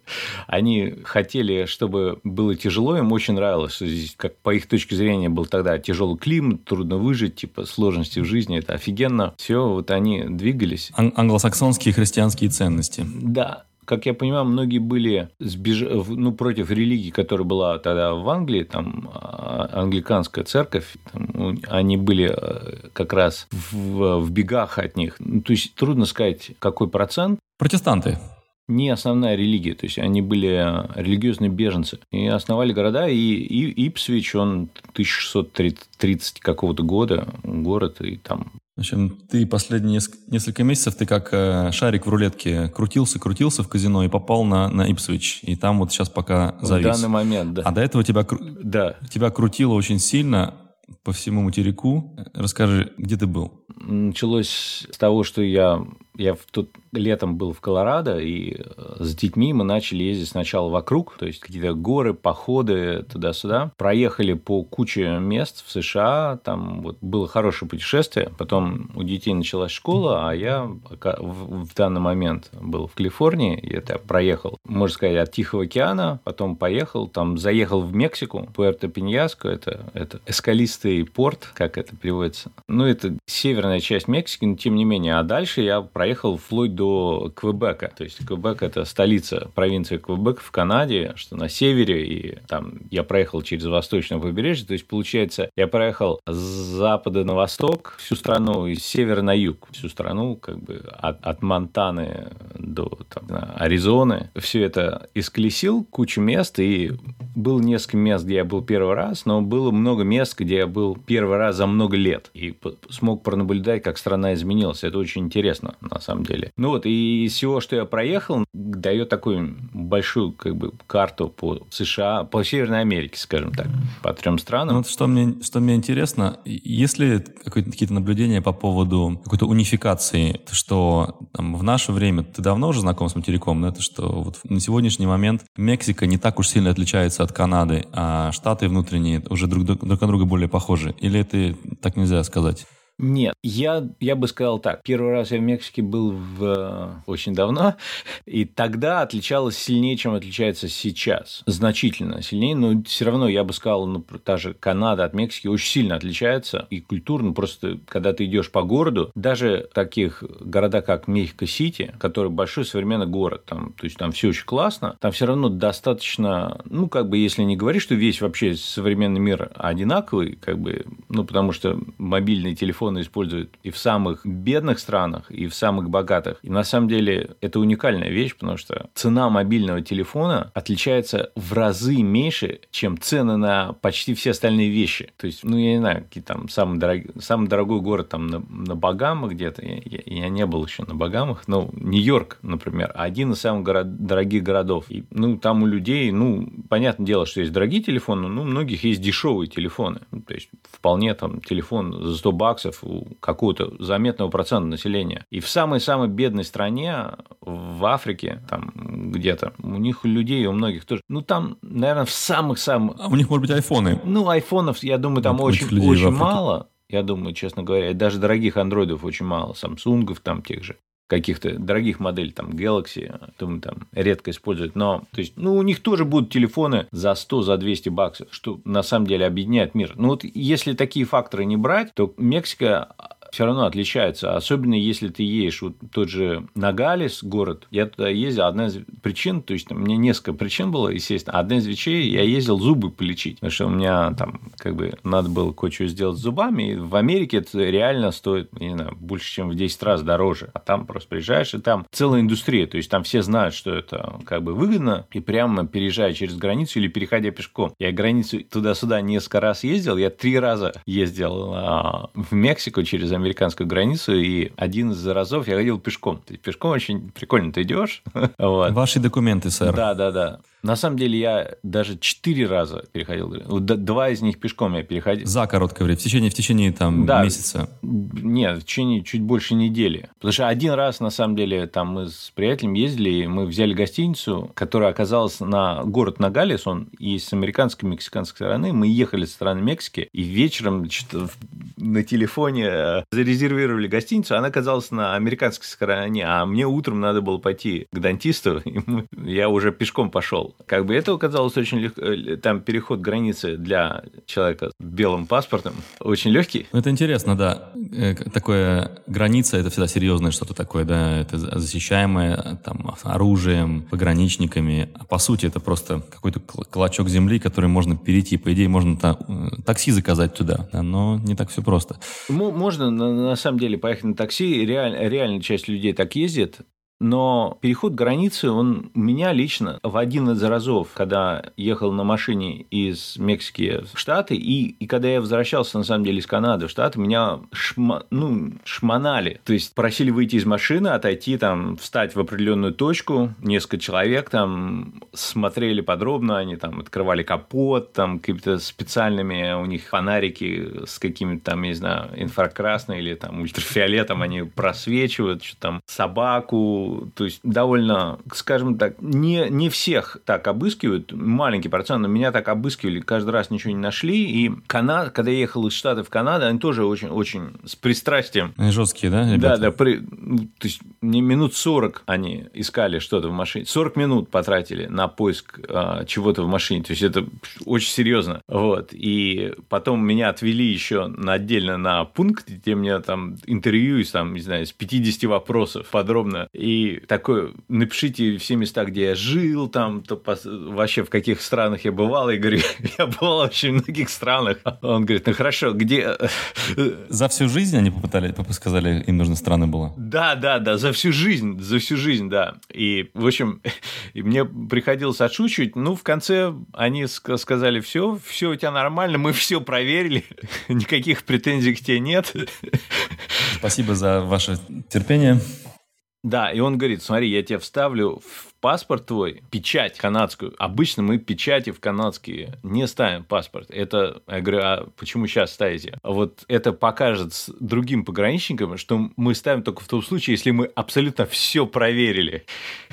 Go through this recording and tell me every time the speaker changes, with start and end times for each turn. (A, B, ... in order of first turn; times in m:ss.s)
0:00.5-0:10.9 A
0:10.9-0:13.1 B
0:13.0-0:27.4 A
0:27.6-0:28.2 B
0:28.7-0:38.5 A
0:38.8-0:47.1 B
0:46.6-0:47.7 A
0:47.6-0:53.5 B
0:48.6-0:49.0 A
0:53.8-2:04.8 A
2:04.7-2:22.6 B
2:23.0-3:33.0 A
3:33.0-3:34.0 B
3:34.0-4:28.8 A
3:35.2-3:36.4 B
4:28.7-4:29.8 B
4:29.6-4:35.3 A
4:35.2-4:37.7 B
4:36.9-5:06.7 A
5:06.7-5:22.0 B
5:22.3-6:08.5 A
6:08.6-6:09.7 B
6:09.3-6:37.0 A
6:37.1-6:40.0 B
6:40.0-6:53.4 A
6:53.5-6:55.4 B
6:56.2-7:12.4 A